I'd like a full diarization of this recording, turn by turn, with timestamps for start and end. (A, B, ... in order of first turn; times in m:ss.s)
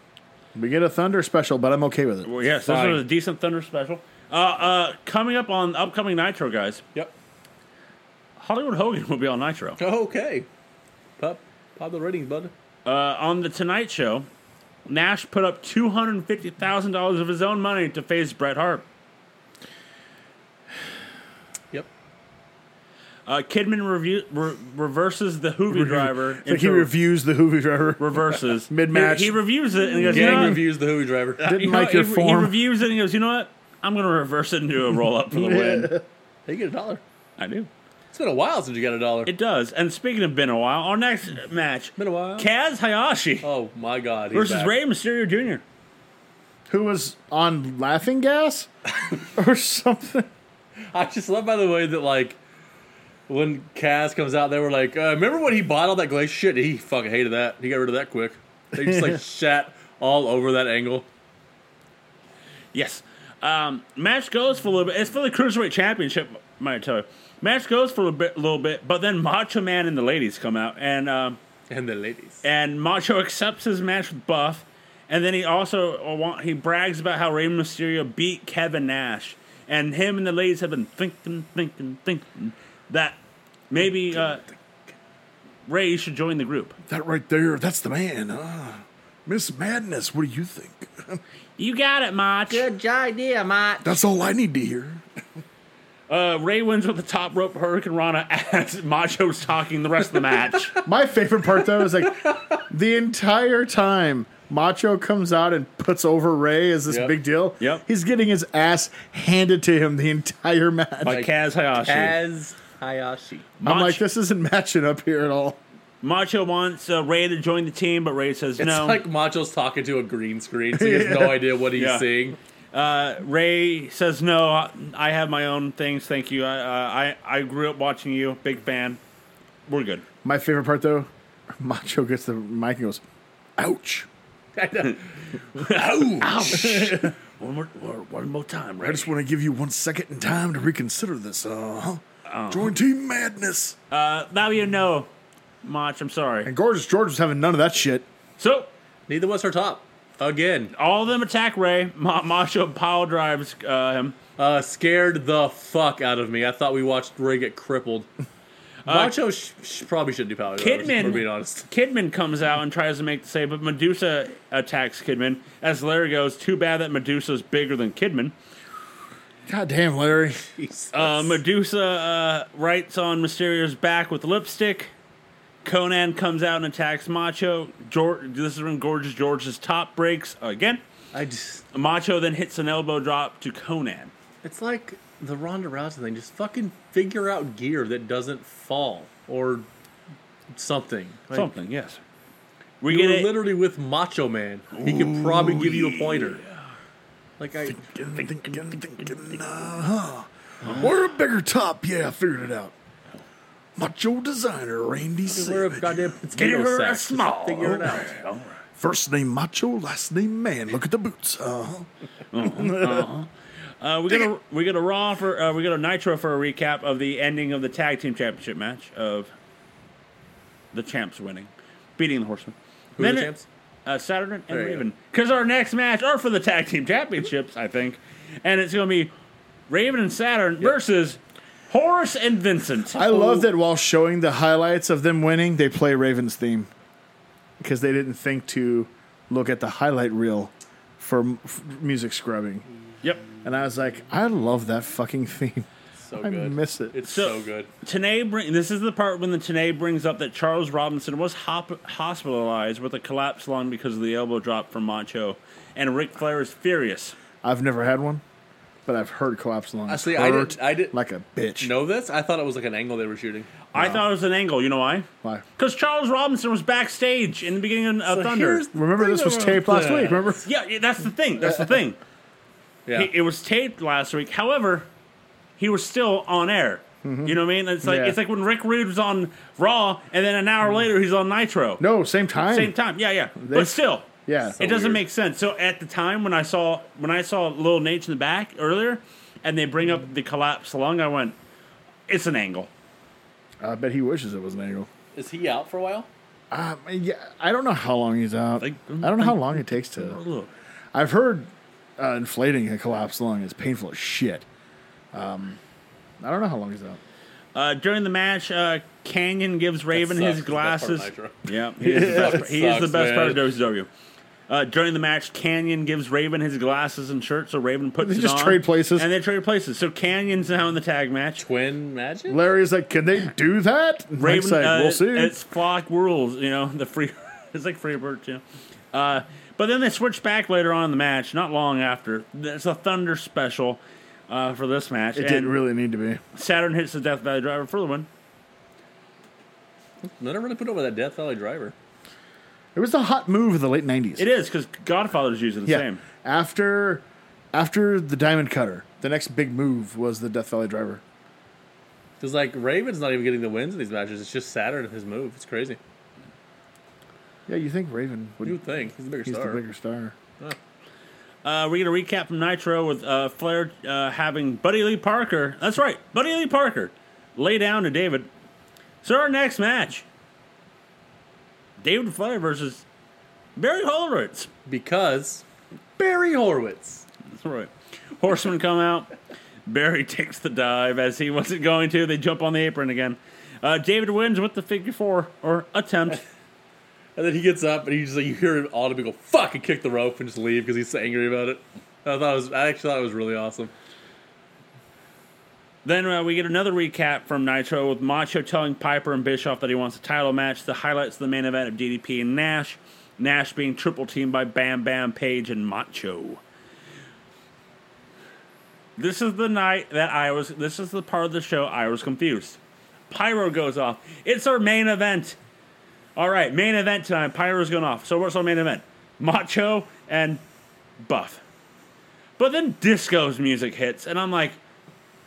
0:00.6-0:02.3 A
0:02.2-0:06.8 B
0:02.7-0:03.0 C
0:08.4-0:09.8 B
0:09.8-0:10.5 C
0:11.2-0:12.5 C
0:12.9-0:14.3 B
0:14.9-0:18.8 B
0:23.3-0:26.9 B
0:25.7-0:30.7 A
0:28.0-0:30.6 B
0:30.0-0:31.4 C
0:31.4-0:36.0 B
0:31.4-0:32.6 A
0:35.3-0:36.0 A
0:36.5-0:37.0 C
0:37.4-0:37.7 B
0:38.1-0:39.3 C
0:39.2-0:43.5 B
0:42.0-0:42.5 C
0:43.4-0:44.8 C
0:44.3-0:45.6 B
0:46.7-0:48.7 A
0:49.3-0:50.3 A
0:50.9-0:52.4 C
0:53.3-1:01.1 C
0:58.8-0:59.2 A
1:02.7-1:11.4 B
1:11.7-1:12.4 C
1:12.4-1:23.2 B
1:23.7-1:24.5 B
1:25.7-1:26.8 B
1:26.9-1:31.2 A
1:31.6-1:32.7 B
1:32.5-1:33.8 C
1:33.8-1:35.0 A
1:36.1-1:40.8 B
1:40.8-1:51.2 A
1:46.9-1:47.2 C
1:51.0-1:52.2 B
1:51.1-1:53.5 C
1:53.6-1:55.6 A
1:53.6-1:54.0 B
1:56.0-1:59.0 B
1:58.6-2:02.4 C
2:00.7-2:01.4 A
2:01.8-2:02.1 B
2:02.7-2:09.0 B
2:09.7-2:10.0 B
2:10.2-2:11.1 A
2:11.6-2:13.0 A
2:13.6-2:14.1 A
2:14.6-2:15.0 C
2:15.5-2:19.1 B
2:16.3-2:17.1 A
2:18.8-2:23.8 A
2:22.3-2:22.8 B
2:23.9-2:25.1 B
2:25.6-2:26.5 B
2:26.4-2:28.0 A
2:28.4-2:28.7 B
2:29.1-2:30.7 C
2:30.7-2:34.2 B
2:34.4-2:38.1 C
2:38.8-2:39.2 B
2:38.9-2:41.7 C
2:40.6-2:48.4 B
2:49.5-2:50.4 A
2:50.6-2:51.4 C
2:50.9-2:54.9 B
2:55.6-3:00.8 B
3:01.1-3:01.6 C
3:01.7-3:04.1 B
3:04.4-3:09.7 C
3:10.5-3:11.6 C
3:11.3-3:12.0 B
3:12.8-3:13.4 B
3:12.9-3:16.4 C
3:14.8-3:16.4 B
3:17.4-3:19.8 C
3:17.7-3:22.7 A
3:20.6-3:20.9 B
3:23.8-3:26.1 A
3:25.3-3:28.2 C
3:26.3-3:28.6 B
3:28.8-3:31.9 A
3:32.3-3:39.3 B
3:32.4-3:33.1 A
3:40.7-3:43.3 B
3:43.0-3:43.4 C
3:43.9-3:49.1 B
3:44.5-3:44.8 C
3:49.7-3:53.0 B
3:52.9-3:56.7 A
3:53.0-3:53.5 C
3:57.6-4:02.7 A
4:03.4-4:05.7 A
4:06.0-4:07.7 C
4:06.2-4:07.0 A
4:07.0-4:17.2 B
4:17.4-4:18.2 A
4:18.9-4:21.7 A
4:19.9-4:21.0 C
4:21.6-4:23.5 C
4:23.7-4:28.6 B
4:23.8-4:24.1 A
4:28.1-4:30.4 C
4:28.6-4:30.5 A
4:30.4-4:32.0 B
4:32.9-4:34.9 B
4:35.6-4:41.8 B
4:37.0-4:38.2 A
4:41.8-4:42.8 A
4:42.5-4:51.4 B
4:43.4-4:44.6 A
4:44.5-4:45.0 C
4:52.1-4:52.7 B
4:53.6-4:54.9 A
4:55.1-4:56.1 C
4:56.5-5:00.2 A
4:58.6-5:00.5 B
5:00.9-5:04.4 A
5:05.1-5:05.6 A
5:06.2-5:07.0 A
5:07.6-5:13.9 B
5:09.9-5:13.4 C
5:11.8-5:12.4 A
5:14.5-5:21.4 B
5:18.0-5:19.1 A
5:21.4-5:22.4 C
5:22.3-5:25.4 A
5:24.2-5:35.6 B
5:35.2-5:36.2 A
5:36.3-5:38.1 B
5:40.0-5:41.8 C
5:42.8-5:44.3 A
5:44.2-5:46.0 B
5:45.7-5:51.0 A
5:52.2-5:55.8 C
5:57.5-5:58.6 A
5:58.4-5:59.6 C
5:59.2-6:00.2 A
6:01.4-6:08.3 B
6:09.0-6:10.1 B
6:11.8-6:12.8 B
6:13.6-6:14.5 B
6:14.7-6:15.4 C
6:16.0-6:17.0 C
6:17.3-6:19.1 B
6:19.7-6:26.2 B
6:27.2-6:33.7 C
6:35.8-6:46.4 B
6:49.0-6:52.6 B
6:53.1-6:55.4 B
6:56.2-7:00.4 B
7:01.0-7:01.4 B
7:02.4-7:04.6 B